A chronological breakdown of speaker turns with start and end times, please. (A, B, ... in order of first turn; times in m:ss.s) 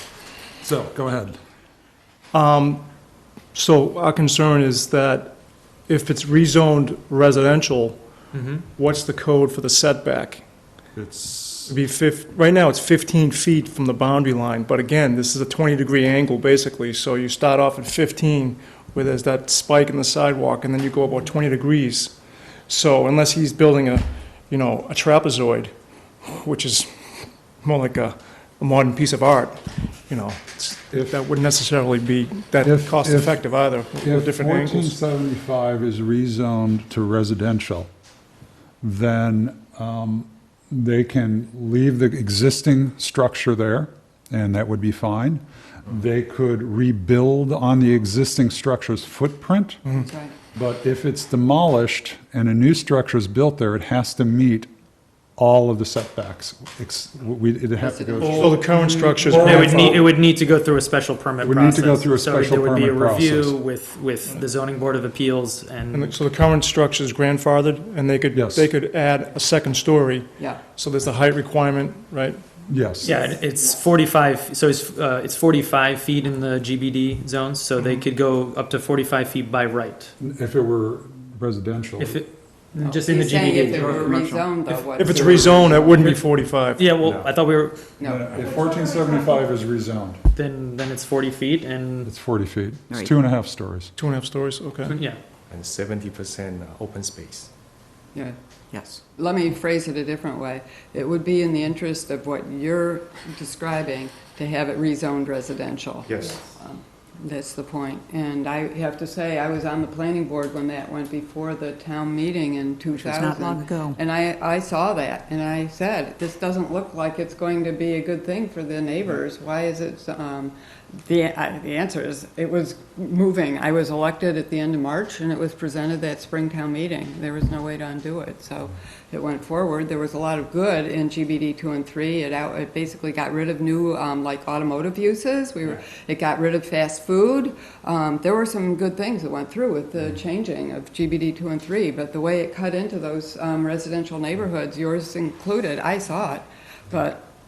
0:00.6-0:01.4 A
0:02.3-0:02.8 B
0:03.5-0:08.1 B
0:08.3-0:08.6 C
0:08.7-0:10.4 B
0:10.9-0:11.7 A
0:11.6-0:22.2 B
0:22.7-0:35.0 B
0:32.6-0:33.4 A
0:34.0-0:37.9 A
0:38.8-0:49.8 A
0:50.0-0:50.3 D
0:50.5-0:54.7 A
0:55.4-0:58.6 A
0:57.8-0:58.6 D
0:58.2-1:00.1 B
0:58.7-1:06.2 C
0:59.3-0:59.7 A
1:01.4-1:03.6 A
1:05.9-1:12.6 B
1:08.3-1:08.7 A
1:12.7-1:13.1 A
1:13.0-1:20.1 C
1:20.2-1:22.2 A
1:22.0-1:24.1 C
1:22.8-1:26.1 D
1:23.7-1:24.5 E
1:24.9-1:26.9 B
1:26.8-1:27.8 C
1:27.0-1:27.3 F
1:28.0-1:28.4 D
1:28.0-1:30.2 A
1:30.3-1:32.1 C
1:32.0-1:33.9 A
1:34.0-1:35.0 B
1:34.9-1:35.2 C
1:35.5-1:37.5 F
1:38.7-1:39.0 E
1:39.2-2:27.3 D
1:46.0-1:46.4 F
1:53.0-1:54.0 E